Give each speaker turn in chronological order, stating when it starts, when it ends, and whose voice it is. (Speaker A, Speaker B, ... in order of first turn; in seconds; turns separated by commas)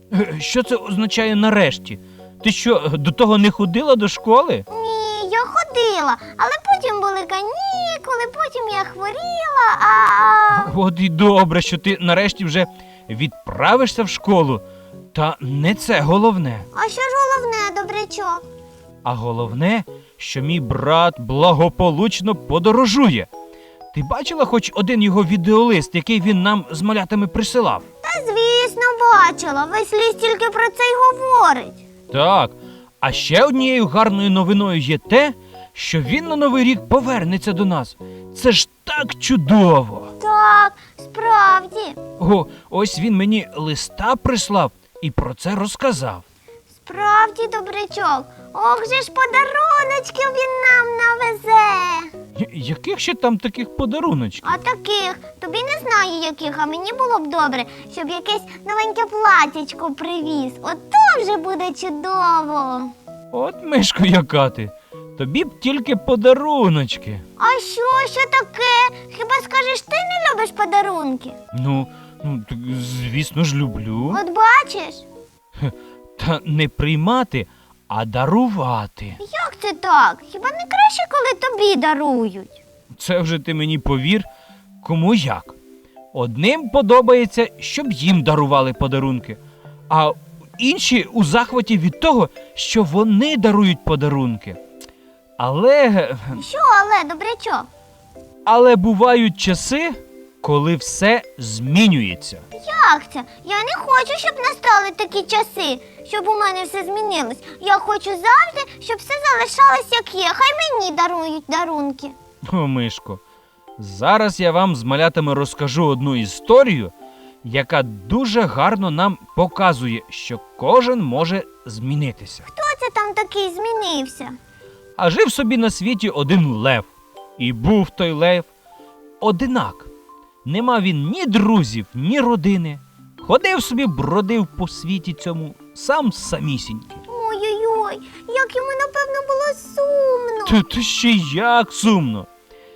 Speaker A: 0.1-4.7, Speaker B: 4.7-10.7, Speaker A: 10.5-14.6, Speaker A: 15.1-16.6, Speaker B: 16.7-18.4, Speaker A: 19.0-23.3, Speaker A: 23.9-27.8, Speaker B: 28.0-31.8, Speaker A: 32.1-40.1, Speaker B: 40.2-42.0, Speaker A: 42.2-46.2, Speaker B: 46.8-52.1, Speaker A: 52.4-54.6, Speaker B: 54.4-62.9, Speaker A: 63.3-67.2, Speaker B: 67.4-71.3, Speaker A: 71.5-74.2, Speaker B: 74.1-75.0, Speaker A: 75.6-79.2, Speaker B: 79.2-82.6, Speaker A: 82.9-84.3, Speaker A: 84.8-85.5, Speaker A: 86.1-94.6, Speaker A: 95.4-96.4, Speaker B: 96.4-97.7, Speaker A: 98.5-102.4, Speaker B: 102.5-112.1, Speaker A: 112.5-113.2, Speaker A: 113.8-122.5, Speaker B: 122.5-124.4, Speaker A: 125.0-128.5, Speaker A: 129.2-129.9, Speaker A: 130.4-137.0, Speaker B: 137.1-140.6, Speaker A: 140.4-142.3